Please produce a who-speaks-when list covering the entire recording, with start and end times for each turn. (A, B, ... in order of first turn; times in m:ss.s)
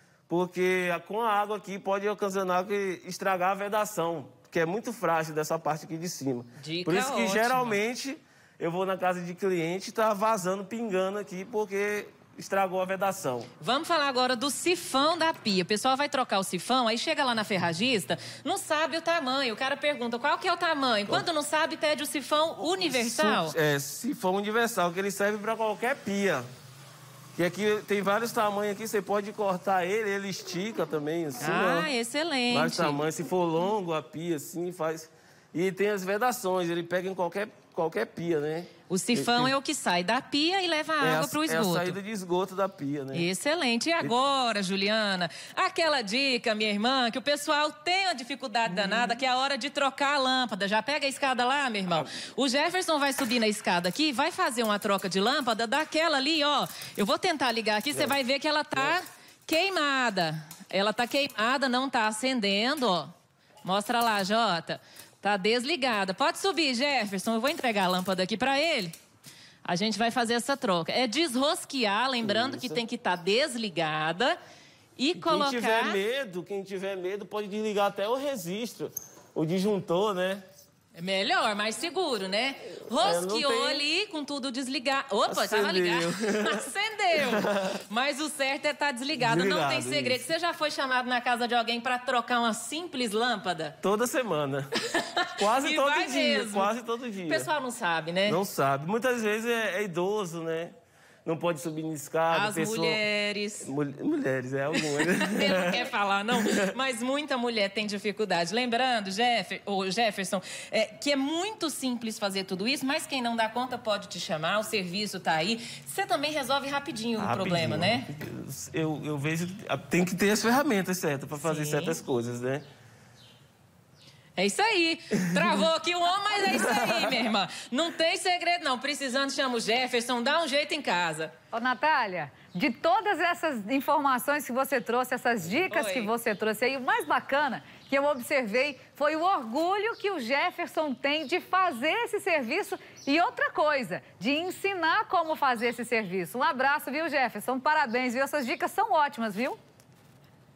0:00.3-0:13.5 A
0:06.6-0:07.8 B
0:13.6-0:23.6 B
0:22.9-0:26.4 A
0:27.4-0:31.9 A
0:31.4-0:33.0 B
0:32.5-0:39.5 A
0:38.9-0:42.0 B
0:41.0-0:43.3 A
0:43.1-1:03.1 B
0:48.7-0:49.2 A
1:03.6-1:08.9 B
1:09.6-1:14.4 B
1:12.2-1:12.8 A
1:15.0-1:16.0 B
1:15.2-1:20.4 A
1:21.0-1:33.8 B
1:22.9-1:23.8 A
1:25.3-1:27.8 A
1:29.1-1:30.3 A
1:33.8-1:34.7 A
1:34.9-1:36.7 B
1:35.4-1:37.5 A
1:37.3-1:38.4 B
1:38.3-1:40.7 A
1:41.2-1:43.0 A
1:42.3-1:43.7 B
1:43.6-1:46.7 A
1:44.7-1:58.1 B
1:57.2-2:02.6 A
2:01.4-2:02.0 B
2:04.4-2:11.3 B
2:06.7-2:07.1 A
2:11.5-2:29.6 C
2:15.6-2:16.1 B